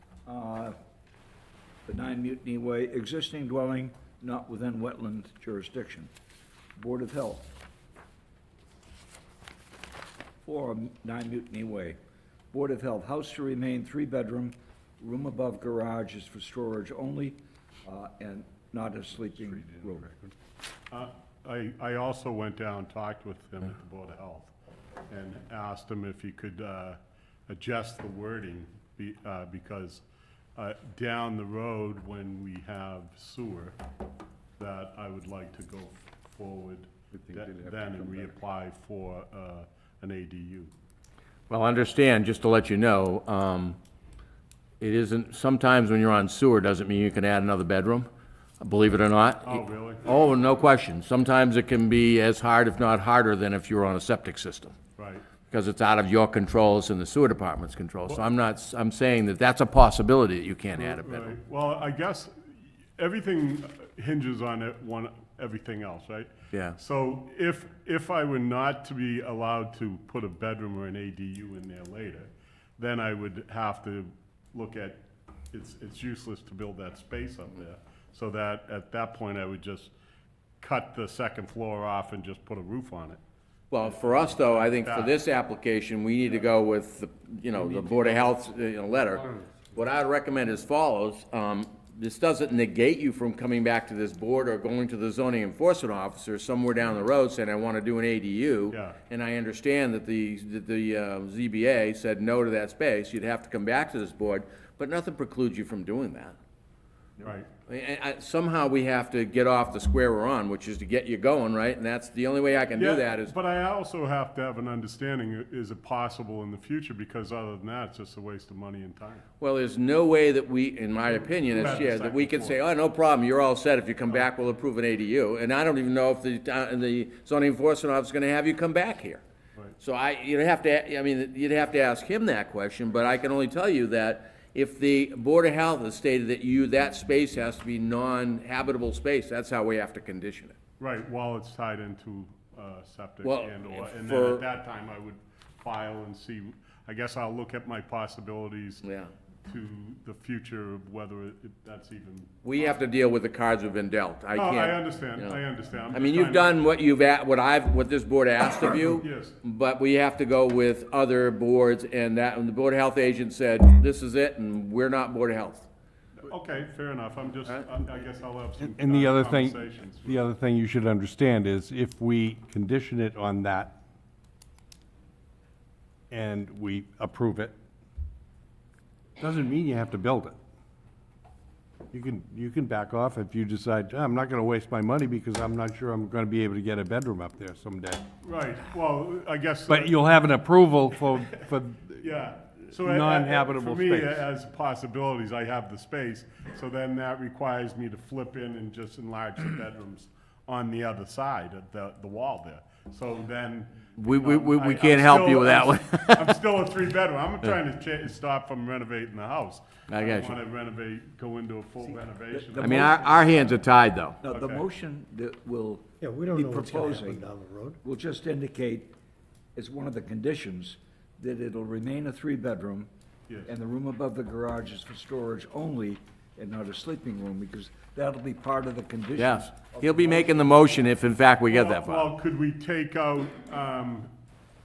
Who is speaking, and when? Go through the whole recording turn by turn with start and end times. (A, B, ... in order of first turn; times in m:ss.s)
0:00.3-0:00.8 A
0:01.9-0:06.1 A
0:06.8-0:07.5 A
0:10.4-0:12.0 A
0:12.5-0:20.2 A
0:20.9-0:24.5 B
0:25.1-0:30.0 B
0:30.6-0:33.8 B
0:34.6-0:40.7 B
0:37.1-0:38.3 C
0:41.5-0:43.8 D
0:44.8-0:48.1 D
0:48.6-0:54.8 D
0:49.4-0:50.0 B
0:55.0-0:55.2 B
0:55.5-1:01.4 D
1:00.8-1:02.3 B
1:03.0-1:19.9 B
1:20.6-1:23.2 B
1:23.7-1:46.4 D
1:23.8-1:25.2 B
1:27.8-1:28.1 B
1:38.7-1:39.0 B
1:47.2-1:47.5 B
1:47.7-1:53.4 D
1:52.8-1:59.2 B
1:59.4-2:09.2 D
2:01.1-2:02.6 B
2:09.8-2:20.6 D
2:20.8-2:28.8 B
2:23.2-2:24.4 D
2:28.8-2:29.1 D
2:29.4-2:32.8 B
2:32.4-2:45.7 D
2:34.3-2:36.6 B
2:38.8-2:39.4 B
2:46.2-2:50.2 B
2:48.6-2:53.8 C
2:56.1-2:57.6 C
2:59.2-3:00.4 C
3:01.9-3:08.1 C
3:08.2-3:10.3 B
3:09.7-3:12.1 C
3:12.0-3:33.1 B
3:12.7-3:14.2 C
3:24.0-3:26.3 D
3:29.9-3:30.4 D
3:32.4-3:32.9 A
3:32.6-3:34.2 D
3:32.8-3:33.3 E
3:34.2-3:37.3 A
3:34.3-3:34.6 B
3:36.0-3:37.8 E
3:37.8-3:38.9 A
3:39.6-3:42.9 A
3:43.4-3:50.8 A
3:49.2-3:52.1 D
3:51.5-3:54.1 B